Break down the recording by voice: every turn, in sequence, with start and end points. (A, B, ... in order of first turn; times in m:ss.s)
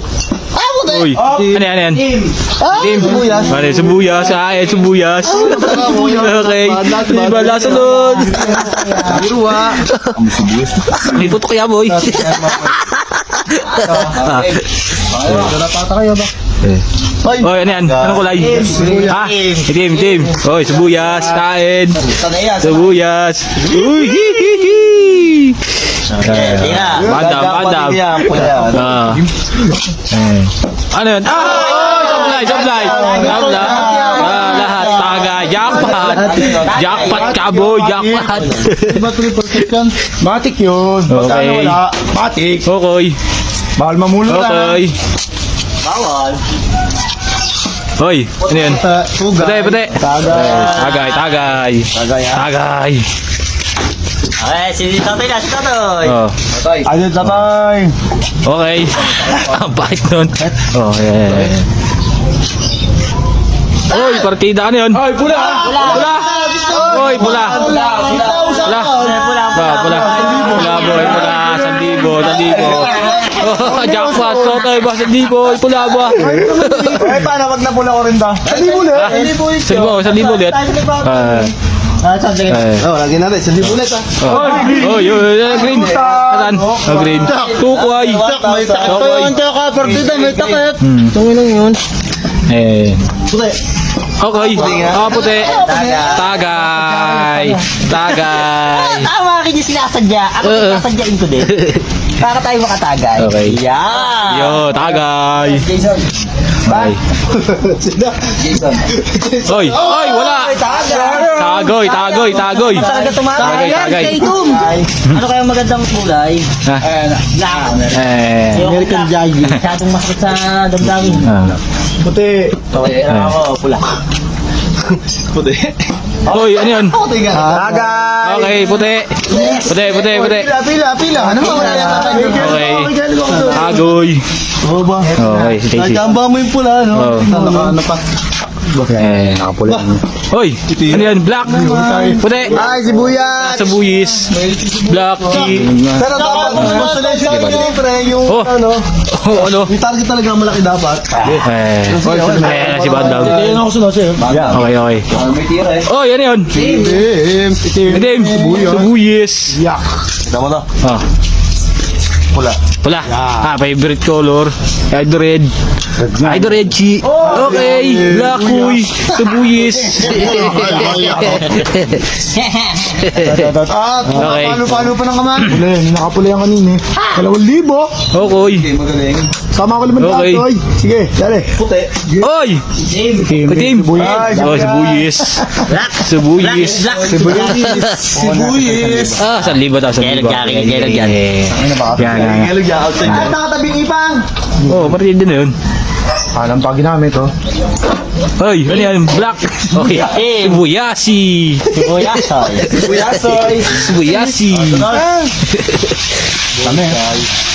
0:00.5-0:01.6 A
0:00.9-0:02.1 B
0:01.1-0:01.6 C
0:02.4-0:04.1 A
0:02.7-0:09.0 B
0:02.9-0:03.8 C
0:05.3-0:11.1 A
0:05.4-0:06.1 C
0:08.0-0:09.2 D
0:08.7-0:09.2 C
0:11.0-0:14.6 B
0:11.9-0:12.8 C
0:13.5-0:14.1 D
0:13.9-0:14.2 C
0:14.2-0:14.6 A
0:15.1-0:16.3 A
0:15.2-0:15.6 B
0:17.2-0:19.3 A
0:17.4-0:29.3 B
0:18.4-0:20.3 D
0:18.5-0:19.1 C
0:22.1-0:22.8 D
0:22.3-0:22.7 A
0:26.1-0:27.2 D
0:27.0-0:29.2 A
0:30.1-0:39.1 B
0:31.3-0:37.5 D
0:31.7-0:36.4 C
0:34.8-0:37.1 A
0:37.1-0:42.7 C
0:41.1-0:41.8 B
0:42.6-0:43.2 B
0:43.8-0:44.8 C
0:44.3-0:44.9 B
0:45.8-0:46.4 D
0:48.0-0:48.8 B
0:48.6-0:50.0 C
0:49.4-0:53.0 B
0:49.9-0:50.6 A
0:50.2-0:51.5 D
0:52.0-0:52.4 A
0:54.4-0:56.2 D
0:56.0-0:56.3 B
0:56.6-0:57.4 A
0:56.9-0:57.9 C
0:58.4-1:01.6 B
1:03.9-1:05.1 B
1:05.0-1:11.5 C
1:05.3-1:14.6 D
1:05.7-1:17.3 B
1:12.9-1:14.6 C
1:16.1-1:18.6 C
1:16.2-1:16.4 A
1:18.4-1:19.2 A
1:18.4-1:22.8 D
1:18.9-1:21.5 B
1:22.5-1:22.9 B
1:22.8-1:24.3 A
1:24.2-1:28.3 B
1:24.2-1:29.3 C
1:25.6-1:26.1 A
1:27.6-1:30.7 A
1:28.4-1:31.8 D
1:28.8-1:29.3 B
1:29.8-1:30.2 C
1:30.8-1:31.1 B
1:32.5-1:33.0 B
1:33.3-1:33.6 A
1:34.2-1:39.1 B
1:34.3-1:35.4 A
1:34.6-1:36.6 D
1:35.2-1:37.6 C
1:37.9-1:41.6 D
1:40.4-1:40.9 B
1:41.4-1:41.8 B
1:42.2-1:44.8 D
1:43.2-1:43.6 B
1:44.2-1:45.7 B
1:45.6-1:46.0 A
1:46.6-1:47.0 B
1:47.3-1:51.5 A
1:48.5-1:48.8 D
1:49.4-1:54.3 B
1:49.7-1:51.3 C
1:50.2-1:56.5 D
1:52.8-1:54.9 A
1:53.4-1:54.6 C
1:56.6-1:56.9 B
1:56.8-1:57.2 C
1:57.2-2:01.4 D
1:57.9-1:58.7 B
1:58.7-1:59.6 A
2:01.2-2:01.6 B
2:02.0-2:02.6 C
2:02.7-2:03.8 D
2:03.1-2:03.3 B
2:04.8-2:08.4 A
2:06.2-2:07.0 B
2:07.3-2:08.6 C
2:08.2-2:10.5 B
2:09.3-2:13.8 C
2:09.3-2:10.4 A
2:11.1-2:13.9 A
2:11.7-2:12.0 D
2:12.3-2:12.9 B
2:13.5-2:14.2 B
2:14.6-2:15.1 A
2:15.0-2:15.6 C
2:15.2-2:16.1 B
2:15.8-2:17.9 A
2:16.9-2:17.3 B
2:17.2-2:18.0 C
2:18.7-2:20.0 C
2:19.0-2:19.5 B
2:20.3-2:22.6 B
2:20.7-2:23.4 A
2:21.4-2:23.8 C
2:23.3-2:27.7 B
2:24.3-2:27.8 C
2:25.2-2:33.6 A
2:28.2-2:29.7 B
2:31.3-2:33.6 B
2:32.0-2:34.6 C
2:34.2-2:35.9 A
2:34.4-2:35.1 B
2:35.8-2:36.6 B
2:36.5-2:37.6 A
2:36.6-2:38.9 C
2:37.9-2:39.6 B
2:39.5-2:40.1 C
2:40.2-2:40.7 A
2:42.3-2:42.6 A
2:42.8-2:45.5 B
2:43.1-2:43.5 C
2:46.0-2:48.9 C
2:46.2-2:52.0 B
2:47.1-2:47.5 A
2:49.9-2:51.8 C
2:50.6-2:51.6 D
2:52.2-2:53.1 D
2:53.0-2:53.3 B
2:53.1-2:58.0 C
2:54.1-2:55.6 B
2:58.1-2:58.7 B
2:58.4-2:59.3 A
2:59.4-3:01.6 C
3:00.0-3:00.5 B
3:01.6-3:02.2 A
3:02.2-3:02.6 B
3:03.2-3:08.1 B
3:03.2-3:05.6 C
3:03.9-3:04.8 A
3:05.6-3:07.8 D
3:07.0-3:09.2 C
3:07.1-3:07.4 A
3:08.2-3:09.2 A
3:09.1-3:13.3 B
3:10.0-3:11.2 D
3:11.5-3:12.2 C
3:12.0-3:13.4 A
3:13.1-3:14.9 C
3:14.7-3:15.6 B
3:16.3-3:17.3 C
3:18.4-3:22.2 B
3:19.8-3:20.6 D
3:21.7-3:23.0 D
3:22.8-3:23.9 A
3:22.8-3:25.0 B
3:23.9-3:25.3 C
3:24.7-3:25.0 A
3:25.5-3:25.9 B
3:26.6-3:27.0 C
3:26.6-3:27.2 A